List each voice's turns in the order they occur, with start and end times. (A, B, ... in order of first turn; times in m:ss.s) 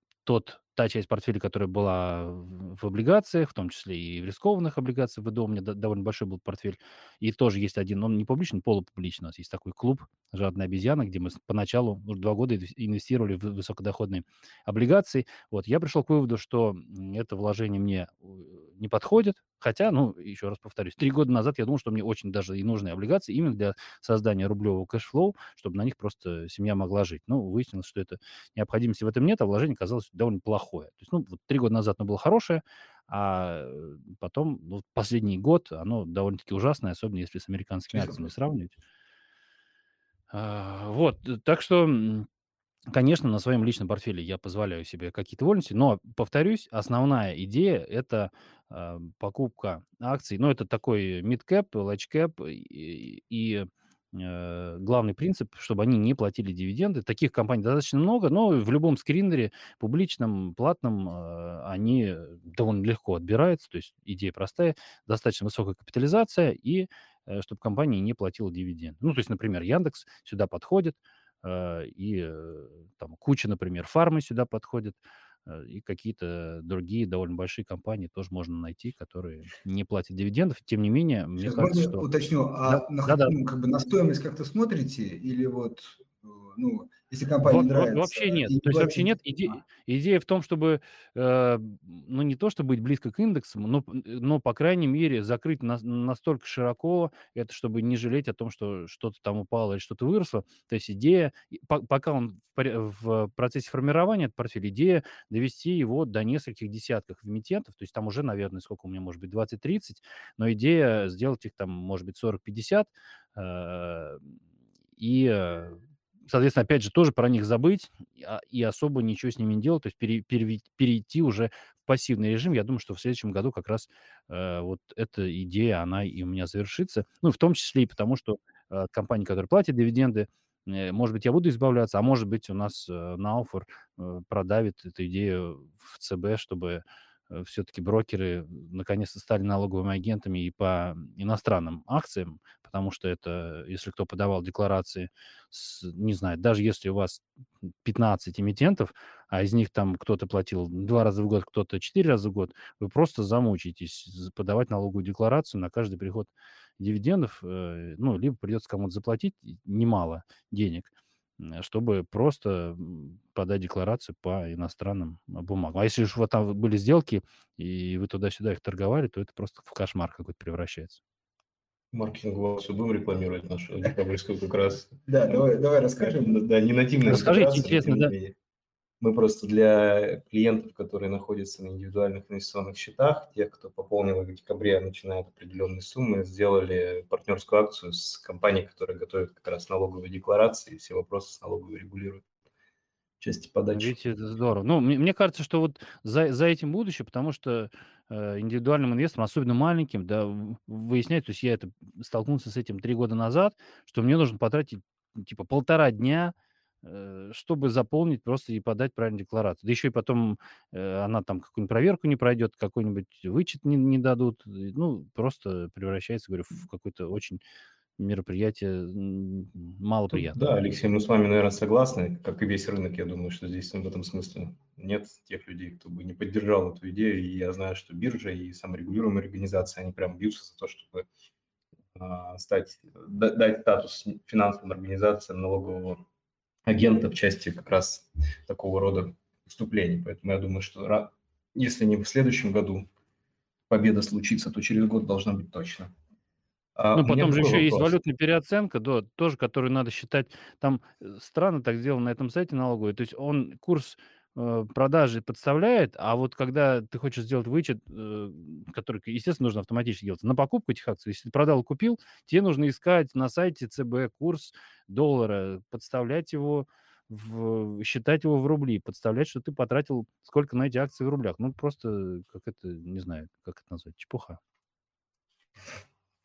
0:00.2-0:38.7 A
0:37.9-0:38.3 B
0:40.3-0:42.3 A
0:42.9-1:22.1 A
1:21.4-1:29.5 B
1:22.7-1:23.3 A
1:27.4-1:54.2 A
1:55.0-2:27.2 A
2:27.8-2:51.0 A
2:51.9-2:55.5 C
2:55.1-2:56.4 B
2:56.0-2:58.4 C
2:57.0-2:58.1 A
2:59.0-3:12.3 C
3:13.2-3:13.9 C
3:13.8-3:37.4 A
3:38.0-3:40.4 A
3:40.1-3:51.1 C
3:52.0-3:56.0 C
3:56.7-4:02.9 C
4:03.7-4:05.9 C
4:06.8-4:08.0 C
4:07.0-4:34.4 A